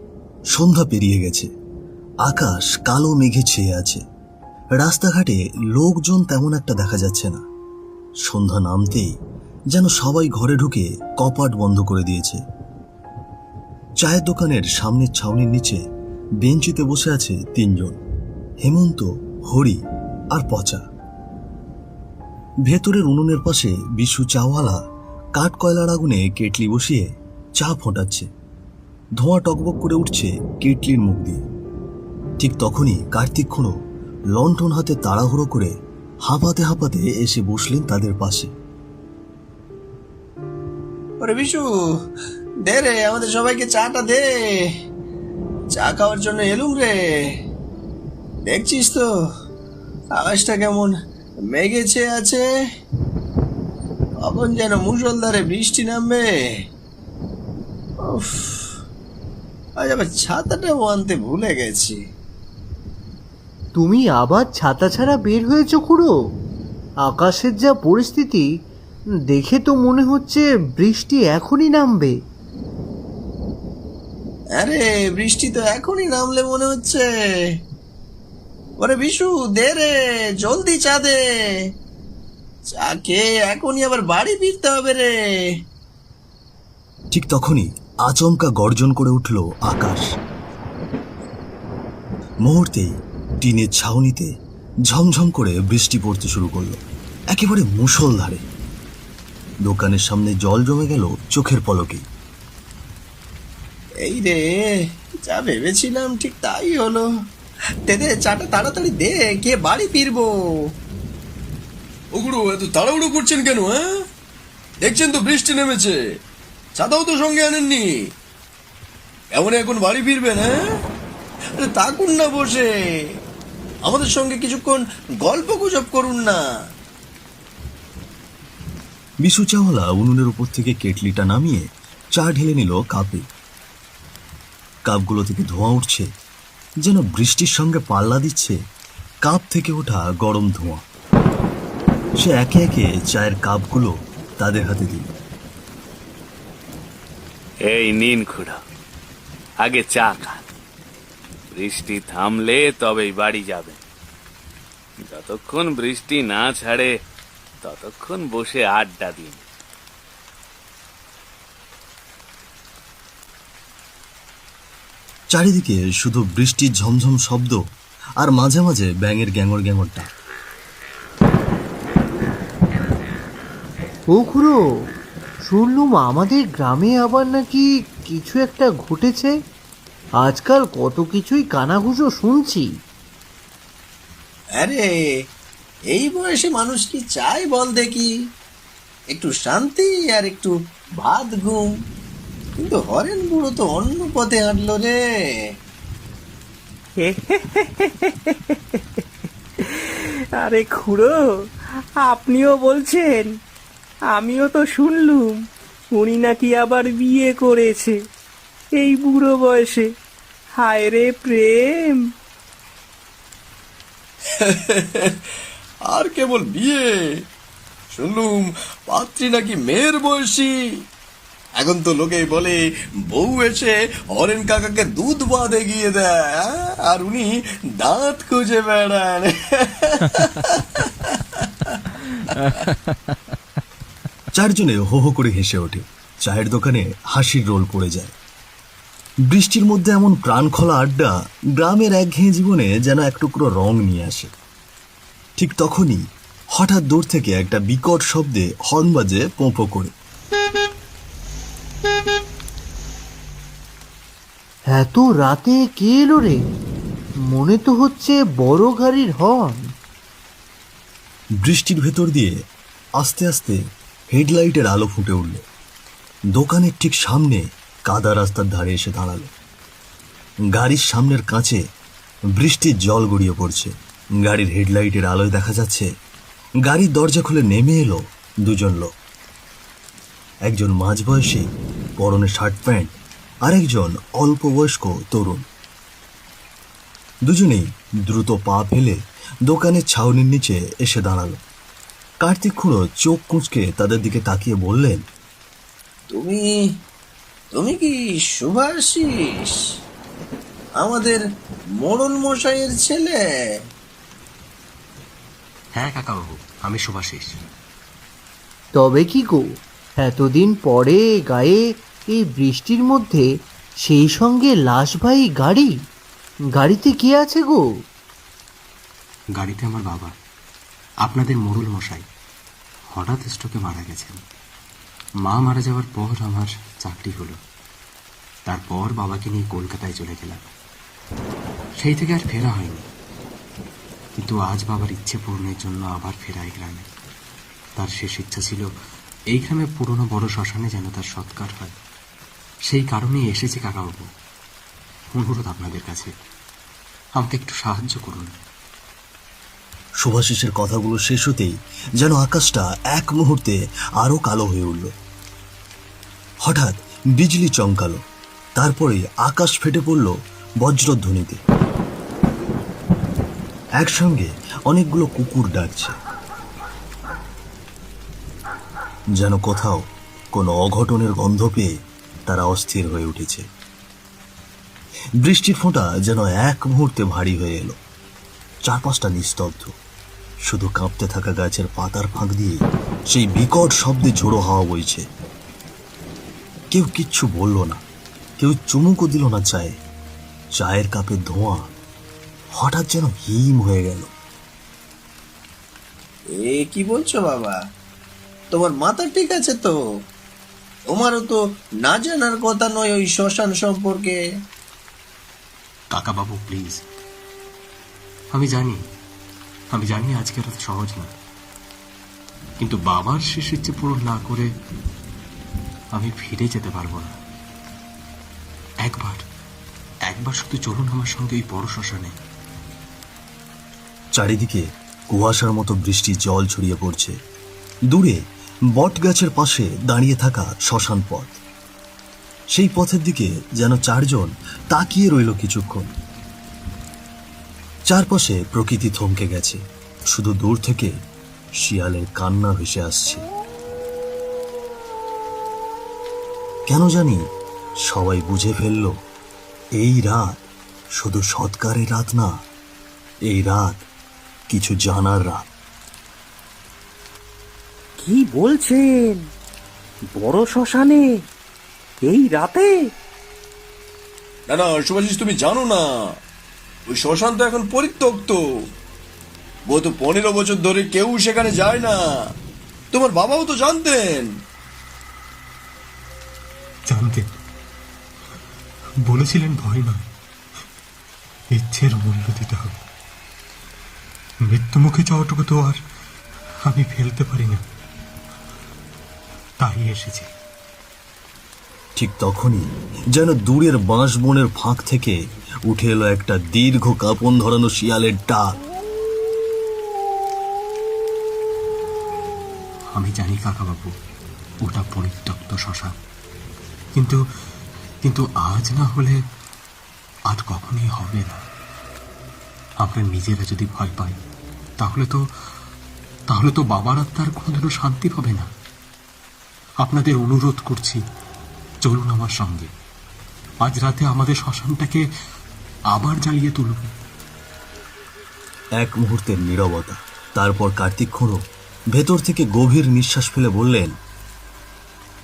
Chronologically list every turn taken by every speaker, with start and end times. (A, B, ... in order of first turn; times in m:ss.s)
0:00.5-0:01.5 A
0:02.2-0:04.0 A
0:04.8-0:07.4 A
0:08.2-0:09.1 A
0:09.7-0:12.4 A
0:14.0-0:15.8 A
0:16.4-0:18.0 A
0:18.6-0:19.8 A
0:20.3-0:20.8 A
0:22.6-0:24.8 A
0:25.3-0:28.3 A
0:29.2-0:31.4 A
0:32.4-0:33.7 A
0:34.3-0:35.7 A
0:36.2-0:38.5 A
0:41.2-0:41.6 B
0:42.7-0:44.2 B
0:45.7-0:46.9 B
0:48.4-0:49.0 B
0:50.2-0:50.9 B
0:51.5-0:52.4 B
0:54.2-0:56.2 B
0:58.1-0:58.5 B
0:59.8-1:02.0 B
1:03.8-1:06.1 C
1:07.1-1:08.5 C
1:09.3-1:12.1 C
1:14.6-1:17.0 B
1:18.8-1:19.9 B
1:20.4-1:21.2 B
1:22.7-1:25.1 B
1:27.1-1:30.1 A
1:32.4-1:34.3 A
1:34.9-1:38.4 A
1:39.6-1:42.0 A
1:44.0-1:44.6 B
1:45.2-1:47.0 B
1:47.9-1:50.3 B
1:52.1-1:53.8 D
1:54.8-1:55.9 D
1:56.8-1:57.8 D
1:59.3-2:00.5 D
2:01.6-2:02.6 D
2:03.9-2:04.8 D
2:05.3-2:06.3 D
2:09.2-2:13.2 A
2:14.8-2:16.1 A
2:16.8-2:18.6 A
2:19.2-2:20.8 A
2:22.2-2:25.1 A
2:27.6-2:28.6 E
2:29.6-2:30.4 E
2:31.5-2:33.8 E
2:35.1-2:36.9 E
2:37.6-2:39.4 E
2:45.3-2:47.6 A
2:48.2-2:50.1 A
2:54.1-2:54.6 C
2:55.4-2:59.3 C
3:00.2-3:02.7 C
3:04.6-3:04.8 B
3:05.9-3:08.1 B
3:09.1-3:11.7 B
3:12.6-3:14.9 B
3:17.0-3:18.6 F
3:20.4-3:21.2 F
3:22.0-3:23.3 F
3:24.1-3:25.4 F
3:25.9-3:28.0 F
3:28.8-3:29.9 F
3:30.6-3:32.0 F
3:34.4-3:35.1 D
3:35.9-3:37.0 D
3:37.9-3:40.6 D
3:41.6-3:49.8 D
3:54.4-3:58.1 A
3:59.3-4:04.3 A
4:05.4-4:06.0 A
4:06.5-4:09.9 A
4:14.7-4:16.4 C
4:17.3-4:19.6 C
4:21.4-4:22.4 A
4:23.0-4:23.6 A
4:24.1-4:25.4 A
4:26.3-4:29.3 A
4:30.5-4:31.6 A
4:32.4-4:35.9 A
4:36.6-4:38.9 A
4:40.4-4:41.4 A
4:42.0-4:45.4 A
4:47.3-4:51.4 A
4:52.2-4:55.0 A
4:56.1-4:56.4 B
4:57.6-4:59.6 B
5:00.8-5:01.2 B
5:01.8-5:03.1 B
5:05.8-5:07.4 G
5:08.7-5:09.4 C
5:10.0-5:11.6 C
5:12.1-5:13.2 C
5:13.8-5:15.7 C
5:16.5-5:17.6 C
5:19.4-5:20.1 G
5:21.0-5:22.0 G
5:22.9-5:24.2 G
5:25.2-5:27.4 G
5:28.5-5:30.4 G
5:31.8-5:32.9 G
5:34.2-5:36.9 G
5:37.8-5:38.7 G
5:39.3-5:41.7 G
5:42.7-5:44.0 G
5:45.1-5:46.1 G
5:47.2-5:48.4 G
5:50.0-5:54.9 A
5:56.4-5:58.0 A
5:58.6-6:01.4 A
6:03.8-6:05.9 A
6:09.2-6:09.8 A
6:10.3-6:11.7 A
6:12.3-6:13.4 A
6:15.2-6:17.8 A
6:18.6-6:19.7 A
6:20.4-6:22.6 A
6:23.1-6:25.0 A
6:26.7-6:27.8 A
6:28.4-6:29.8 A
6:30.6-6:31.7 A
6:32.6-6:34.1 A
6:36.5-6:37.5 B
6:38.6-6:39.7 B
6:41.0-6:41.3 B
6:42.2-6:44.1 B
6:45.9-6:46.8 G
6:48.3-6:48.8 G
6:49.7-6:51.1 G
6:52.6-6:54.5 G
6:56.0-6:57.2 G
6:58.8-6:59.2 G
7:00.1-7:02.1 G
7:04.1-7:07.1 A
7:07.9-7:08.2 A
7:08.7-7:11.4 A
7:12.5-7:15.9 A
7:17.9-7:19.6 A
7:20.1-7:20.9 A
7:21.6-7:23.2 A
7:26.7-7:27.2 A
7:27.8-7:28.9 A
7:29.8-7:30.5 A
7:31.0-7:32.3 A
7:33.3-7:33.8 A
7:34.5-7:35.5 A
7:44.5-7:45.9 D
7:46.9-7:48.4 D
7:49.7-7:52.2 D
7:52.9-7:54.3 D
7:56.9-7:57.2 G
7:59.1-8:00.0 G
8:01.5-8:02.8 G
8:04.5-8:05.8 G
8:06.7-8:07.6 G
8:09.6-8:10.3 G
8:12.0-8:15.1 A
8:15.7-8:18.5 A
8:23.0-8:23.9 G
8:24.6-8:25.9 G
8:28.0-8:29.2 G
8:30.3-8:31.4 G
8:32.8-8:34.2 G
8:34.8-8:35.2 G
8:36.3-8:38.5 G
8:39.8-8:41.0 G
8:41.8-8:42.7 G
8:43.6-8:45.0 G
8:45.9-8:46.9 G
8:48.8-8:51.4 A
8:51.9-8:53.9 A